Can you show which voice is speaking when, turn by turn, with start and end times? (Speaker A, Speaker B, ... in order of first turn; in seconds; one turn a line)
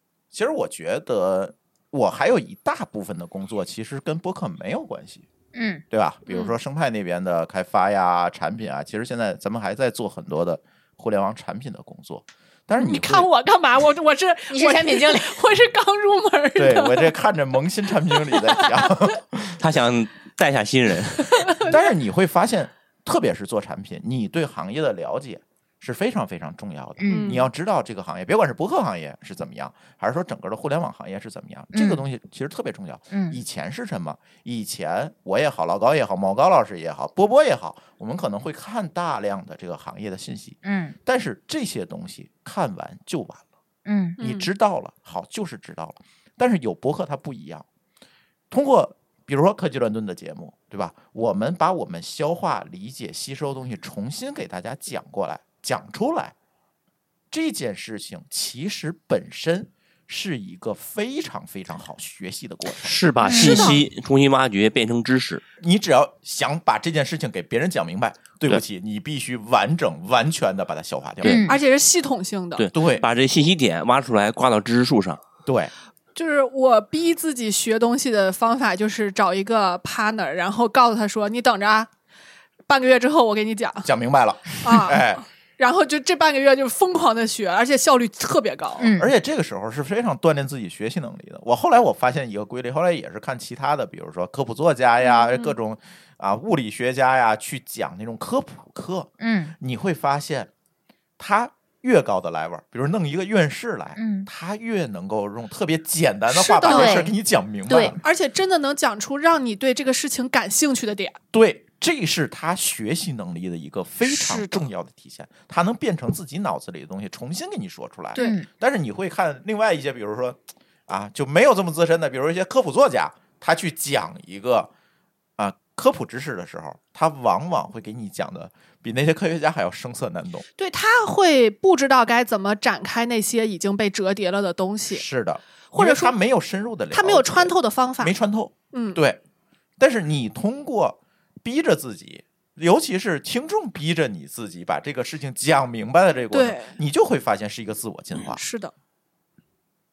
Speaker A: 0.3-5.2
Speaker B: 5.5-5.8
Speaker A: 5.9-13.3
Speaker C: 6.3-6.5
Speaker C: 12.8-17.1
Speaker B: 14.5-15.4
Speaker A: 16.6-19.6
Speaker C: 18.3-18.6
Speaker D: 19.6-21.5
Speaker C: 21.3-21.8
Speaker A: 21.6-43.4
Speaker B: 27.0-27.4
Speaker C: 27.1-27.5
Speaker B: 31.7-32.0
Speaker B: 33.1-33.4
Speaker B: 40.6-41.0
Speaker B: 43.9-44.2
Speaker C: 44.2-44.5
Speaker A: 44.2-47.6
Speaker A: 48.5-56.3
Speaker A: 57.3-63.0
Speaker D: 62.8-65.4
Speaker B: 63.2-63.8
Speaker C: 63.3-63.8
Speaker A: 65.6-71.5
Speaker B: 71.2-71.5
Speaker C: 71.5-72.7
Speaker D: 72.6-75.2
Speaker A: 72.7-73.0
Speaker A: 75.5-75.7
Speaker C: 76.1-81.9
Speaker C: 82.7-83.9
Speaker A: 83.8-85.2
Speaker C: 84.6-88.9
Speaker B: 88.8-89.1
Speaker A: 89.0-100.5
Speaker C: 95.0-95.5
Speaker B: 99.2-99.5
Speaker A: 101.2-108.0
Speaker B: 104.0-104.3
Speaker C: 106.3-107.1
Speaker B: 106.6-107.1
Speaker B: 107.7-108.0
Speaker C: 108.0-111.2
Speaker A: 111.3-124.7
Speaker C: 114.0-114.6
Speaker C: 118.1-118.4
Speaker B: 118.2-118.5
Speaker A: 125.4-130.4
Speaker C: 130.6-135.0
Speaker A: 134.9-139.2
Speaker C: 135.7-136.2
Speaker C: 136.9-138.1
Speaker C: 138.7-139.0
Speaker A: 139.8-148.4
Speaker C: 146.3-146.8
Speaker C: 148.2-148.7